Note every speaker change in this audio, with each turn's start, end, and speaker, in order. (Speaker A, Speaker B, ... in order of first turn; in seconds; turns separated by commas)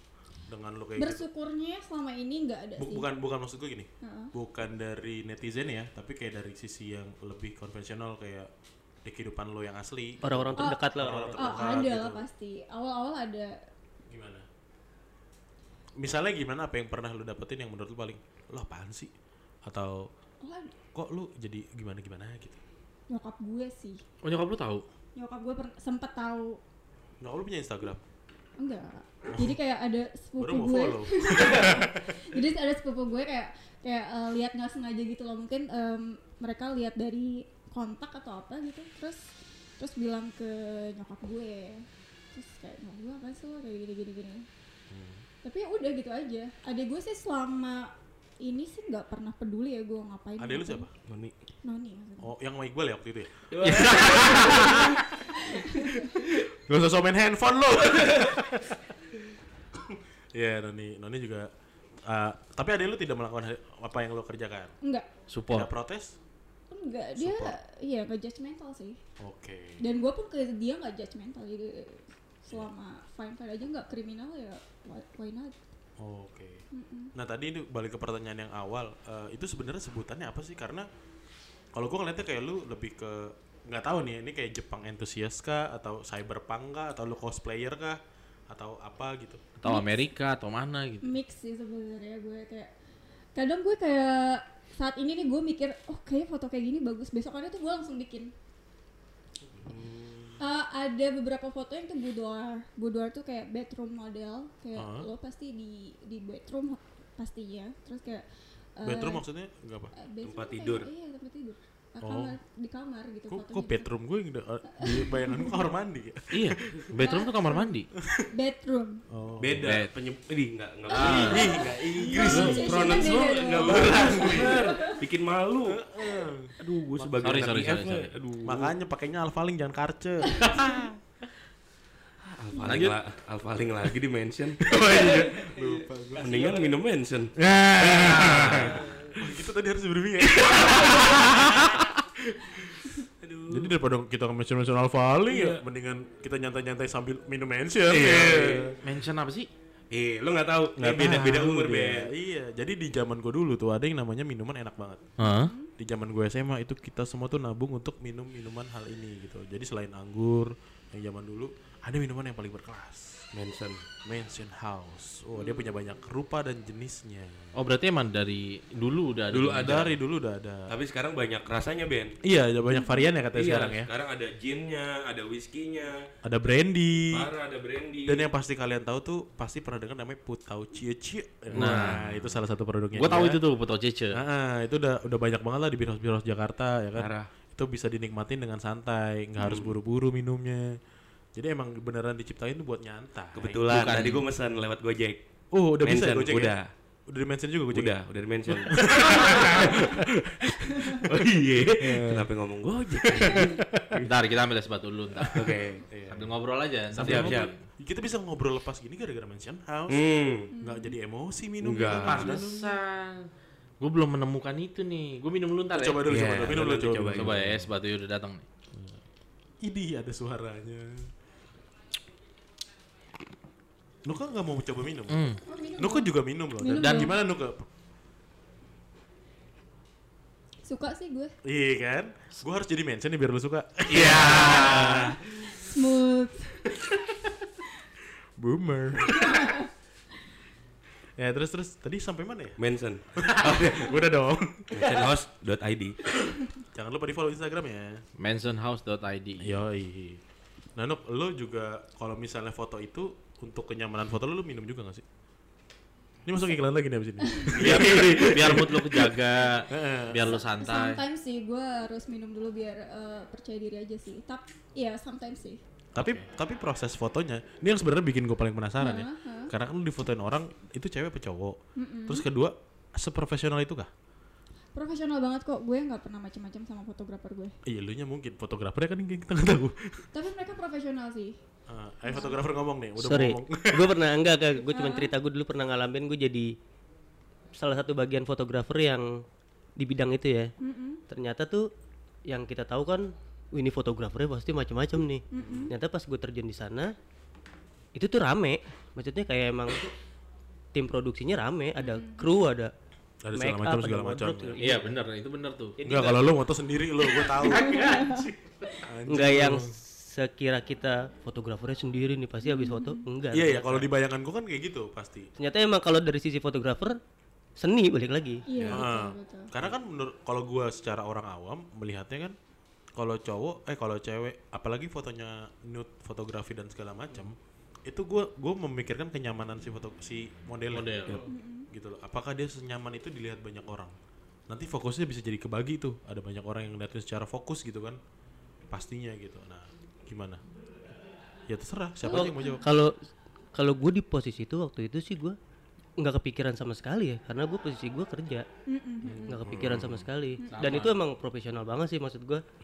Speaker A: 0.5-1.2, Speaker B: 1.0-3.1, Speaker A: 2.8-8.5, Speaker B: 4.0-4.3, Speaker A: 9.1-12.2, Speaker C: 10.2-11.8, Speaker B: 10.6-13.6, Speaker A: 14.1-14.4, Speaker A: 16.0-19.1, Speaker A: 19.7-20.1, Speaker B: 20.4-20.7, Speaker A: 20.9-22.6, Speaker B: 23.1-24.0, Speaker D: 24.2-24.8, Speaker B: 25.2-26.6, Speaker A: 27.2-28.0, Speaker B: 28.6-39.2, Speaker A: 30.4-32.4, Speaker B: 39.8-44.5, Speaker A: 44.9-45.2, Speaker B: 45.4-50.9, Speaker A: 50.4-50.9, Speaker E: 51.1-51.3, Speaker B: 51.6-52.3, Speaker A: 52.2-54.9, Speaker C: 53.5-54.8, Speaker D: 53.6-54.9, Speaker B: 55.4-56.1, Speaker A: 56.7-58.8, Speaker A: 60.4-61.5, Speaker A: 62.1-64.7, Speaker B: 64.8-65.1, Speaker D: 65.3-65.7, Speaker A: 65.5-66.2, Speaker B: 66.7-69.0, Speaker A: 67.2-67.6, Speaker A: 69.2-69.8, Speaker B: 69.8-75.5, Speaker A: 76.0-80.8, Speaker B: 76.7-77.1, Speaker A: 81.8-88.0, Speaker A: 88.5-89.4, Speaker D: 89.6-91.2, Speaker B: 89.7-90.1, Speaker B: 91.0-92.7, Speaker B: 93.4-98.3, Speaker E: 99.6-100.4, Speaker B: 100.4-108.2, Speaker A: 104.8-105.1, Speaker B: 108.8-109.2, Speaker A: 108.8-109.9, Speaker B: 110.0-113.9, Speaker E: 110.2-110.9, Speaker A: 112.0-112.4, Speaker A: 113.3-116.8, Speaker B: 114.8-115.6, Speaker D: 116.3-117.9, Speaker B: 117.0-119.0, Speaker A: 119.1-119.7, Speaker E: 119.4-121.5, Speaker D: 119.6-119.9, Speaker B: 120.9-124.9, Speaker D: 120.9-121.5, Speaker A: 121.0-124.7, Speaker E: 122.3-125.8, Speaker A: 125.7-126.5, Speaker E: 126.6-128.7, Speaker D: 127.2-128.1, Speaker A: 128.4-130.9, Speaker E: 132.2-135.3, Speaker D: 132.6-133.0, Speaker A: 134.7-136.6, Speaker E: 136.2-139.2, Speaker A: 137.4-148.8, Speaker D: 138.1-138.8, Speaker E: 140.4-141.8, Speaker E: 143.2-143.7, Speaker E: 145.3-145.6, Speaker E: 147.9-148.8, Speaker D: 148.8-149.5, Speaker E: 149.9-152.1, Speaker A: 150.8-155.1, Speaker D: 155.2-155.5, Speaker B: 155.2-155.7, Speaker A: 155.8-163.2, Speaker E: 163.3-163.8, Speaker A: 164.1-167.5, Speaker D: 167.6-169.9, Speaker E: 169.3-169.9, Speaker A: 169.6-170.7, Speaker E: 170.7-172.2, Speaker A: 172.2-173.9, Speaker B: 172.7-173.1, Speaker E: 173.3-176.1, Speaker A: 176.2-177.3, Speaker E: 177.1-178.3, Speaker A: 178.1-183.4, Speaker D: 181.5-182.3, Speaker E: 181.6-182.0, Speaker D: 182.9-184.2, Speaker A: 184.1-190.8, Speaker E: 187.0-187.3, Speaker E: 189.4-189.7, Speaker A: 191.3-193.6, Speaker E: 193.3-195.2, Speaker D: 193.7-194.3, Speaker A: 195.5-196.6, Speaker E: 195.8-196.7, Speaker A: 197.1-198.0, Speaker E: 197.7-204.1, Speaker A: 198.5-199.9, Speaker A: 201.8-202.3, Speaker A: 203.1-203.9, Speaker D: 204.0-205.5, Speaker A: 205.2-206.3, Speaker E: 205.3-205.8, Speaker D: 206.1-207.7, Speaker A: 206.9-212.8, Speaker E: 207.0-207.5, Speaker E: 209.9-210.5, Speaker B: 210.5-210.9, Speaker E: 211.6-212.3, Speaker D: 211.9-213.3, Speaker D: 213.8-216.0, Speaker A: 215.7-217.6, Speaker E: 216.1-217.7, Speaker D: 217.1-218.4, Speaker A: 219.6-221.1, Speaker A: 224.1-227.7, Speaker D: 225.1-225.4, Speaker B: 225.5-227.1, Speaker D: 226.7-227.2, Speaker B: 230.7-231.3, Speaker A: 231.4-235.1, Speaker E: 233.9-235.2, Speaker D: 234.0-235.0, Speaker B: 235.6-236.6, Speaker A: 238.4-239.5, Speaker B: 239.2-239.6, Speaker A: 241.2-242.6, Speaker E: 242.6-244.0, Speaker A: 243.2-244.8, Speaker E: 244.7-246.0, Speaker A: 246.7-248.0, Speaker D: 248.2-249.6, Speaker A: 249.4-250.2, Speaker A: 250.8-255.0, Speaker A: 256.3-260.3, Speaker B: 257.2-257.5, Speaker D: 257.6-261.0, Speaker E: 257.6-258.5, Speaker B: 260.2-265.6, Speaker A: 265.9-273.9, Speaker B: 268.8-269.5, Speaker B: 271.8-272.2, Speaker B: 274.8-277.6, Speaker A: 277.7-280.1, Speaker B: 280.1-281.4, Speaker A: 281.7-284.0, Speaker B: 282.0-282.4, Speaker C: 283.0-286.5, Speaker B: 284.7-285.1, Speaker C: 287.6-289.2, Speaker C: 289.8-290.5, Speaker B: 290.6-291.0, Speaker C: 291.1-291.7, Speaker C: 292.3-296.9, Speaker B: 295.3-295.7, Speaker A: 295.4-295.7, Speaker C: 297.9-299.9, Speaker C: 300.8-302.7, Speaker B: 301.8-302.3, Speaker A: 303.2-304.6, Speaker C: 303.3-304.9, Speaker D: 304.6-305.8, Speaker C: 305.8-306.4, Speaker A: 305.8-307.9, Speaker C: 307.4-308.1, Speaker B: 307.4-308.3, Speaker D: 307.7-308.1, Speaker A: 308.8-309.8, Speaker C: 309.1-313.9, Speaker B: 312.4-313.0, Speaker A: 313.3-315.3, Speaker C: 315.4-317.0, Speaker C: 317.6-318.4, Speaker B: 318.5-319.5, Speaker E: 318.6-318.8, Speaker A: 318.7-322.4, Speaker A: 323.0-331.1, Speaker D: 330.7-331.2, Speaker B: 331.3-331.7, Speaker A: 331.7-333.9, Speaker A: 334.5-338.0, Speaker A: 338.7-340.4, Speaker A: 341.5-342.6, Speaker B: 342.0-342.6, Speaker C: 342.1-342.9, Speaker C: 343.5-345.4, Speaker C: 346.0-348.5, Speaker B: 348.7-349.4, Speaker A: 349.0-350.0, Speaker C: 349.2-352.4, Speaker E: 349.6-350.0, Speaker B: 350.4-350.8, Speaker D: 350.5-351.0